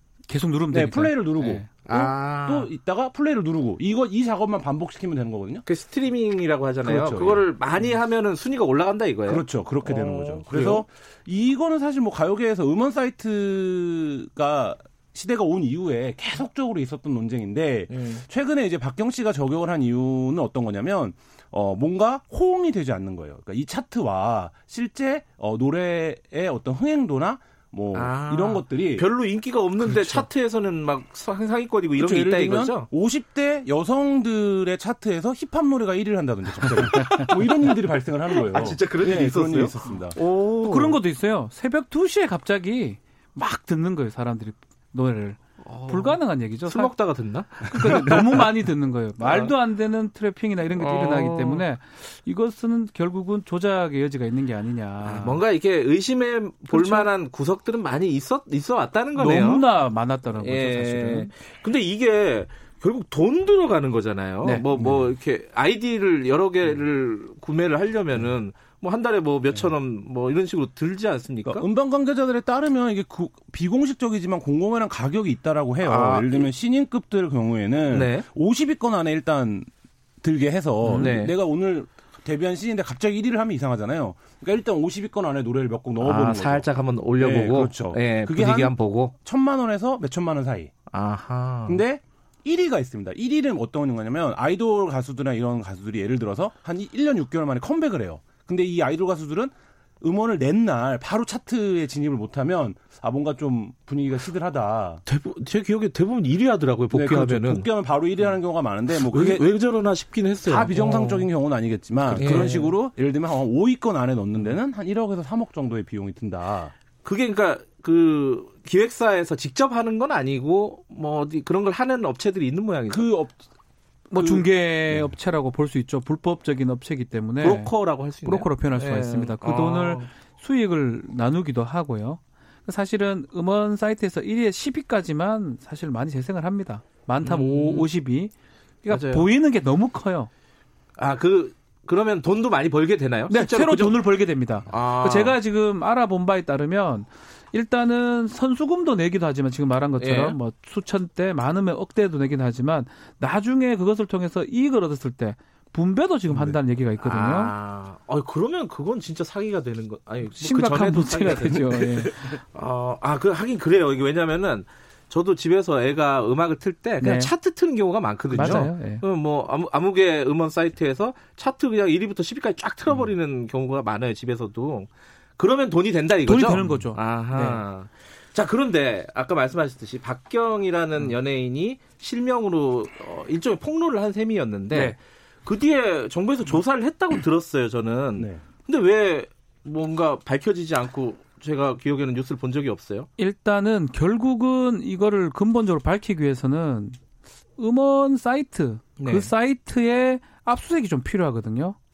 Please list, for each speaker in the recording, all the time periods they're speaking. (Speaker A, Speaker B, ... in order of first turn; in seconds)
Speaker A: 0.3-1.1, 29.8-30.2, 40.6-47.0, 47.5-55.4, 56.7-57.1, 59.2-61.3, 64.4-65.1, 80.8-81.2, 124.1-127.7, 128.2-138.3, 138.9-140.3, 143.3-157.5, 160.3-162.1, 167.0-167.3, 168.3-169.0, 176.2-177.6, 184.7-185.0, 193.2-197.0, 197.6-201.8
Speaker B: 0.7-5.7, 6.8-7.5, 9.3-29.1, 32.0-40.2, 71.5-79.7, 80.2-86.7, 87.2-90.7, 91.7-105.0, 106.9-109.4, 110.5-116.7, 122.9-123.4, 124.2-125.1, 156.3-156.6, 188.2-188.4
Speaker C: 1.5-2.7, 5.7-10.8, 17.9-18.2, 27.9-32.9, 36.6-37.8, 38.3-41.0, 45.6-48.5, 49.2-49.5, 50.8-51.7, 55.0-59.6, 60.3-71.7, 75.8-76.5, 77.9-78.3, 81.0-81.3, 86.0-89.1, 90.9-91.8, 105.1-107.7, 108.9-111.3, 112.1-112.8, 117.0-123.1, 127.4-130.1, 137.2-137.9, 138.9-139.3, 141.0-144.0, 144.7-145.4, 150.0-150.4, 157.0-193.1, 199.0-199.3